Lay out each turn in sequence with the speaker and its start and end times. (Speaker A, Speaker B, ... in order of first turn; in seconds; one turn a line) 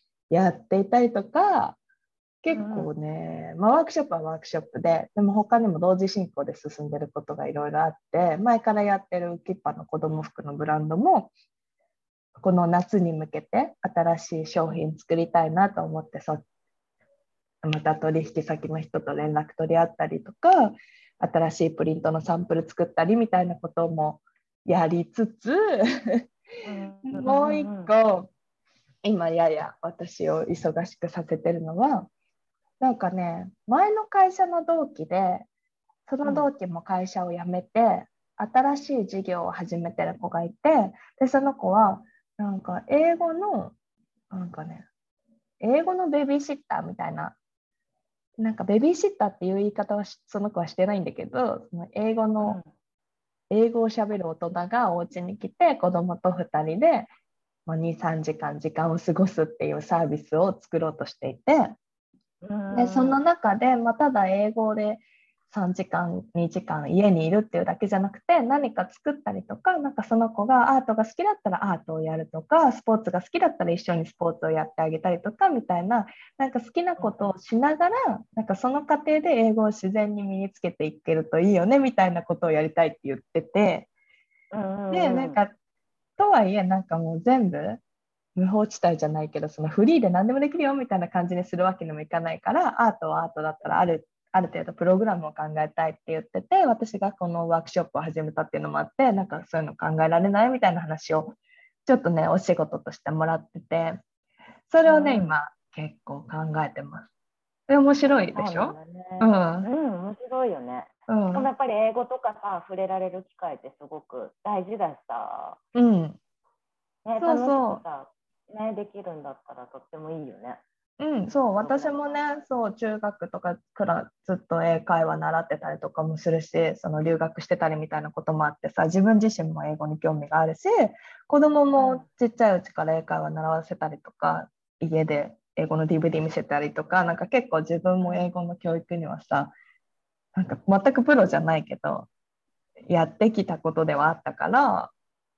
Speaker A: 0.3-1.8
Speaker A: 2.4-11.3
Speaker B: 2.5-2.9
Speaker A: 12.4-16.4
Speaker A: 17.6-26.2
Speaker B: 26.6-27.9
Speaker A: 27.1-28.3
Speaker A: 29.0-32.1
Speaker A: 32.8-35.5
Speaker A: 36.1-43.7
Speaker B: 36.2-36.5
Speaker A: 44.3-44.9
Speaker A: 45.6-47.4
Speaker A: 48.4-52.6
Speaker B: 52.4-52.7
Speaker A: 53.5-57.1
Speaker A: 57.7-61.8
Speaker B: 62.4-63.2
Speaker A: 62.7-83.9
Speaker B: 77.0-77.3
Speaker B: 84.5-85.4
Speaker A: 84.9-85.5
Speaker A: 86.2-87.8
Speaker A: 88.3-104.0
Speaker A: 104.7-107.1
Speaker B: 104.8-105.3
Speaker A: 107.7-109.7
Speaker B: 108.1-115.6
Speaker A: 111.1-111.5
Speaker A: 115.7-116.2
Speaker B: 117.0-120.6
Speaker A: 117.2-117.8
Speaker A: 121.0-139.5
Speaker B: 121.5-122.5
Speaker B: 131.8-132.1
Speaker B: 138.0-138.3
Speaker A: 140.3-142.1
Speaker A: 142.9-144.9